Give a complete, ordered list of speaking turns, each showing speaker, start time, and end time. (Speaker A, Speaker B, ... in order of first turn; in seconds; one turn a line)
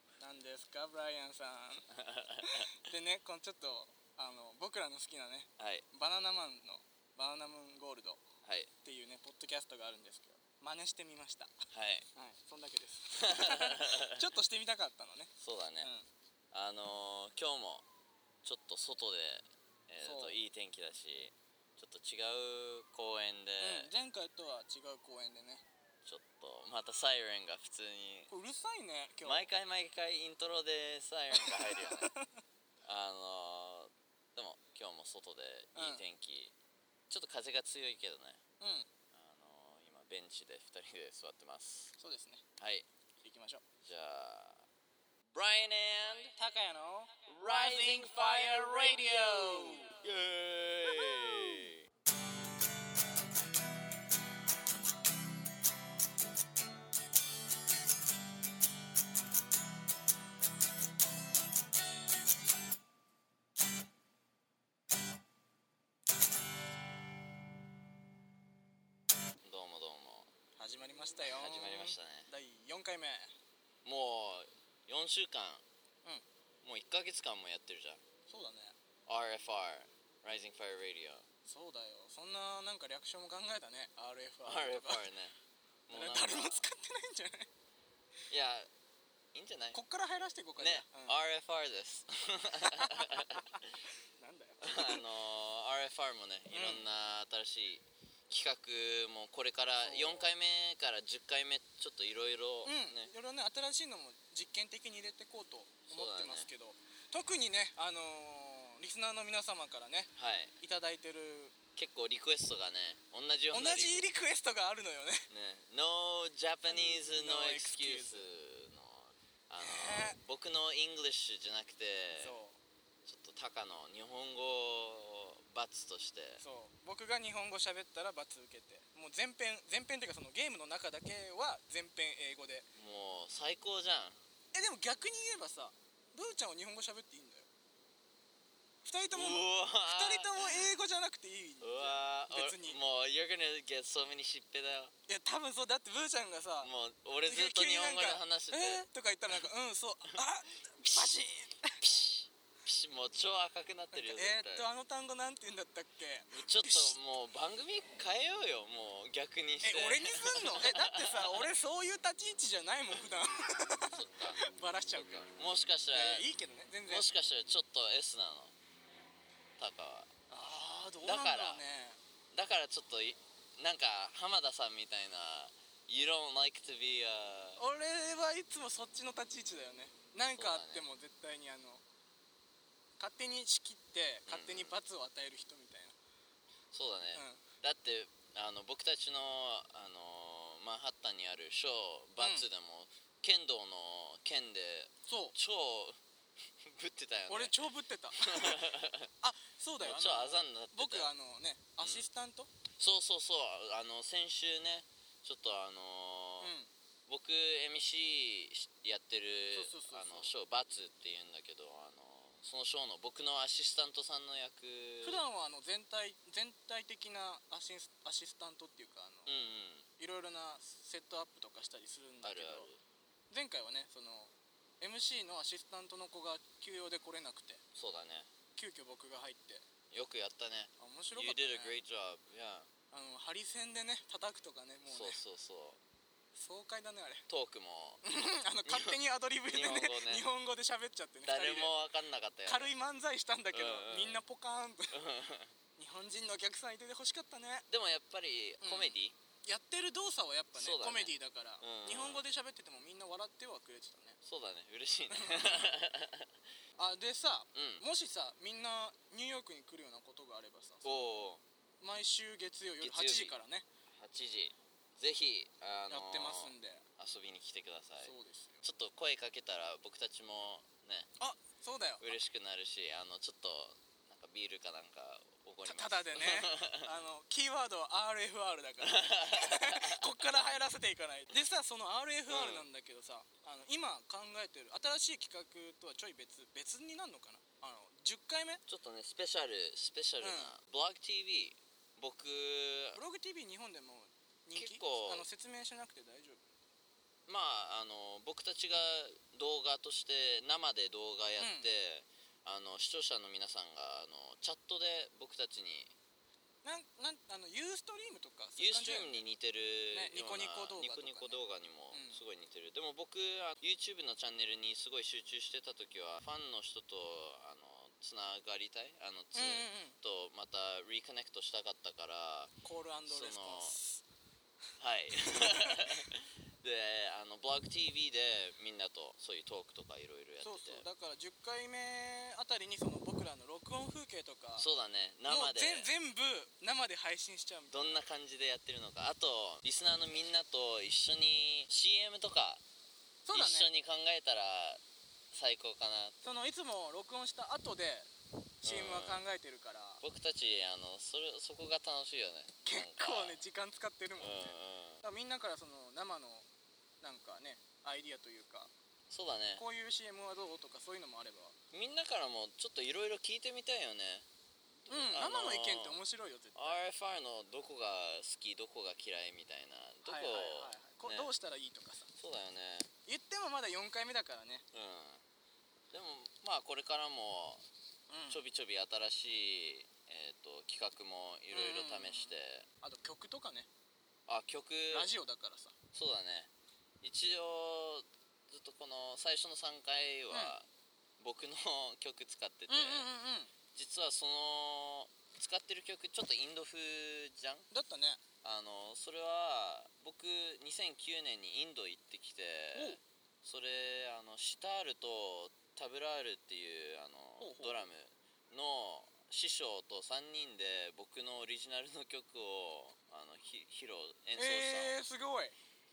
Speaker A: 0.2-1.9
Speaker B: 1.9-2.7
Speaker A: 2.4-8.2
Speaker B: 5.6-5.8
Speaker B: 8.4-8.7
Speaker A: 8.8-16.0
Speaker B: 11.7-12.1
Speaker B: 13.2-14.3
Speaker B: 15.4-15.9
Speaker B: 16.5-17.8
Speaker B: 18.4-23.9
Speaker A: 20.0-20.4
Speaker A: 23.6-25.6
Speaker B: 26.0-28.3
Speaker A: 28.3-29.5
Speaker B: 29.2-32.1
Speaker A: 31.3-32.3
Speaker B: 32.8-36.5
Speaker A: 35.7-36.0
Speaker B: 37.1-38.4
Speaker A: 38.6-38.9
Speaker B: 39.1-41.9
Speaker A: 42.0-42.4
Speaker B: 42.6-42.9
Speaker A: 43.2-43.6
Speaker B: 43.8-44.6
Speaker B: 45.3-46.3
Speaker A: 46.4-50.0
Speaker B: 47.2-51.9
Speaker A: 50.8-51.7
Speaker B: 69.4-70.3
Speaker A: 70.6-73.3
Speaker B: 71.3-72.3
Speaker B: 73.8-75.6
Speaker B: 76.6-78.0
Speaker A: 78.3-78.7
Speaker B: 79.1-81.2
Speaker A: 81.5-85.0
Speaker B: 84.4-85.3
Speaker B: 85.9-86.7
Speaker A: 85.9-87.5
Speaker B: 88.3-88.7
Speaker B: 89.3-89.8
Speaker A: 89.7-91.2
Speaker B: 90.6-93.7
Speaker A: 92.6-93.6
Speaker A: 94.2-95.0
Speaker B: 94.6-103.1
Speaker A: 96.5-96.8
Speaker A: 99.8-100.3
Speaker A: 102.6-111.5
Speaker B: 105.9-106.5
Speaker B: 110.2-110.5
Speaker B: 111.8-114.1
Speaker A: 113.5-115.3
Speaker B: 115.3-122.3
Speaker A: 116.7-118.3
Speaker A: 119.6-120.2
Speaker A: 122.2-122.6
Speaker B: 123.0-126.4
Speaker A: 126.4-132.7
Speaker B: 132.8-134.2
Speaker A: 134.5-137.5
Speaker A: 138.8-142.8
Speaker B: 139.1-140.7
Speaker B: 141.6-144.9
Speaker A: 145.1-146.7
Speaker B: 146.6-148.8
Speaker A: 147.2-151.8
Speaker B: 150.8-151.2
Speaker B: 151.8-154.7
Speaker A: 153.9-157.0
Speaker B: 156.3-161.5
Speaker A: 159.6-165.3
Speaker B: 163.9-164.4
Speaker B: 164.9-166.3
Speaker A: 165.9-167.1
Speaker B: 166.8-168.5
Speaker B: 169.6-170.1
Speaker A: 170.3-172.0
Speaker B: 171.0-171.6
Speaker B: 172.3-177.6
Speaker A: 177.6-181.8
Speaker B: 180.3-180.9
Speaker A: 183.0-185.9
Speaker B: 184.3-184.8
Speaker B: 186.7-195.9
Speaker A: 187.1-187.4
Speaker A: 192.2-192.5
Speaker A: 195.1-195.3
Speaker B: 196.6-199.1
Speaker A: 197.3-198.7
Speaker A: 199.2-202.5
Speaker B: 199.8-201.1
Speaker B: 201.8-202.1
Speaker B: 202.8-206.5
Speaker A: 206.4-206.7
Speaker B: 207.1-215.2
Speaker A: 209.5-210.3
Speaker A: 215.0-219.3
Speaker B: 219.2-219.8
Speaker A: 220.0-222.7
Speaker B: 222.2-222.8
Speaker A: 223.3-227.6
Speaker B: 227.7-228.3
Speaker A: 228.6-229.6
Speaker B: 229.9-232.7
Speaker A: 230.8-231.8
Speaker A: 232.9-235.2
Speaker B: 234.9-235.8
Speaker A: 236.3-237.2
Speaker B: 237.3-238.0
Speaker A: 238.0-241.7
Speaker B: 238.7-240.2
Speaker B: 241.2-242.7
Speaker A: 242.4-245.0
Speaker B: 243.5-244.2
Speaker B: 244.9-245.5
Speaker A: 245.8-247.7
Speaker B: 247.7-249.2
Speaker A: 248.6-254.2
Speaker B: 250.5-252.2
Speaker B: 254.2-256.3
Speaker A: 255.1-255.7
Speaker A: 256.8-261.0
Speaker B: 257.5-257.8
Speaker B: 260.8-261.4
Speaker A: 261.8-263.6
Speaker B: 262.8-263.4
Speaker B: 263.9-271.1
Speaker A: 265.9-266.8
Speaker A: 268.0-268.6
Speaker A: 271.2-272.0
Speaker B: 272.0-276.9
Speaker A: 275.6-288.6
Speaker B: 278.8-280.4
Speaker B: 282.3-282.7
Speaker B: 288.7-293.0
Speaker A: 290.2-290.5
Speaker A: 292.9-296.4
Speaker B: 294.6-295.3
Speaker B: 297.3-305.9
Speaker A: 301.4-301.7
Speaker A: 306.6-309.2
Speaker B: 308.6-322.5
Speaker A: 309.9-311.4
Speaker A: 311.9-312.2
Speaker A: 319.3-320.0
Speaker A: 322.6-324.0
Speaker B: 323.1-323.8
Speaker B: 324.8-330.8
Speaker A: 325.2-326.0
Speaker A: 330.4-334.6
Speaker B: 334.6-335.9
Speaker A: 335.3-338.0
Speaker B: 337.7-342.6
Speaker A: 343.2-343.7
Speaker B: 343.3-346.2
Speaker A: 346.2-348.1
Speaker A: 348.6-350.0
Speaker B: 348.6-349.2
Speaker B: 350.0-353.4
Speaker A: 352.6-356.4
Speaker B: 354.2-355.0
Speaker A: 357.0-358.7
Speaker B: 359.1-359.6
Speaker A: 359.6-361.5
Speaker B: 361.7-364.3
Speaker B: 364.8-366.0
Speaker A: 364.9-366.8
Speaker B: 366.5-371.3
Speaker A: 370.0-372.1
Speaker B: 372.1-372.9
Speaker A: 373.1-374.6
Speaker B: 374.7-375.2
Speaker B: 375.9-377.6
Speaker A: 378.1-378.4
Speaker B: 378.3-382.6
Speaker A: 381.5-383.7
Speaker B: 384.3-385.1
Speaker A: 384.9-385.7
Speaker B: 385.9-386.5
Speaker B: 387.0-390.7
Speaker B: 391.2-393.1
Speaker A: 392.7-393.5
Speaker B: 393.7-397.7
Speaker A: 397.7-398.2
Speaker B: 398.4-415.0
Speaker A: 402.7-403.0
Speaker A: 407.4-407.8
Speaker A: 414.4-415.6